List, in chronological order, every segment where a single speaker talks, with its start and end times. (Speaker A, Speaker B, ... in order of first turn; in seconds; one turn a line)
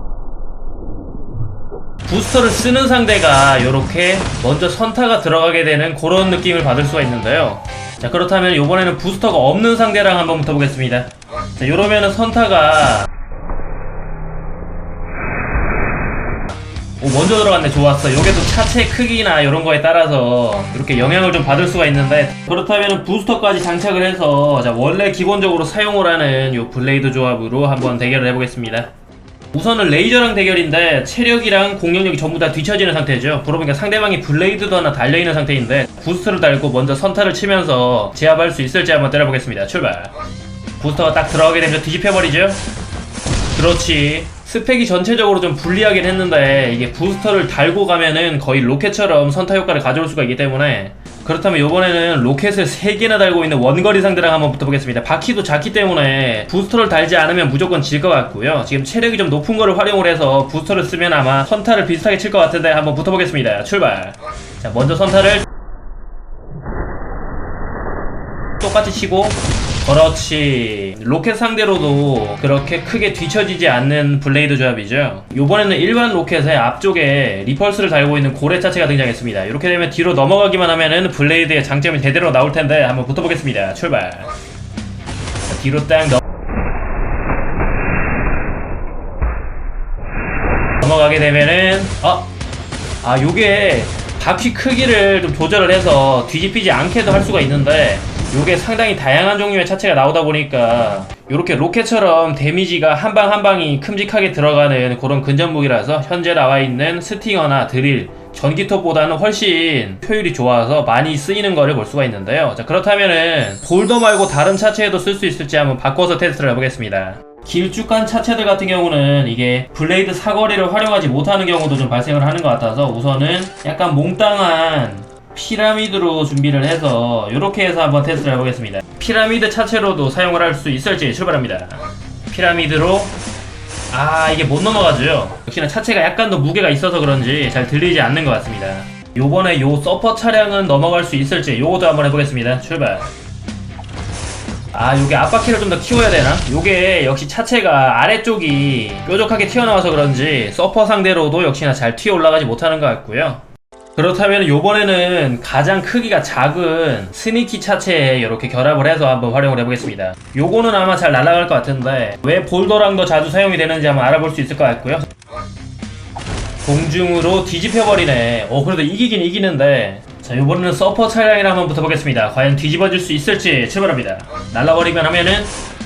Speaker A: 2.1-13.1
Speaker A: 17.0-28.9
Speaker A: 29.5-40.1
Speaker A: 40.8-42.6
Speaker A: 43.5-65.5
Speaker A: 68.6-84.3
Speaker A: 85.5-86.2
Speaker A: 90.8-92.3
Speaker A: 93.0-133.1
Speaker A: 133.9-143.1
Speaker A: 144.7-153.4
Speaker A: 153.9-165.1
Speaker A: 166.6-175.5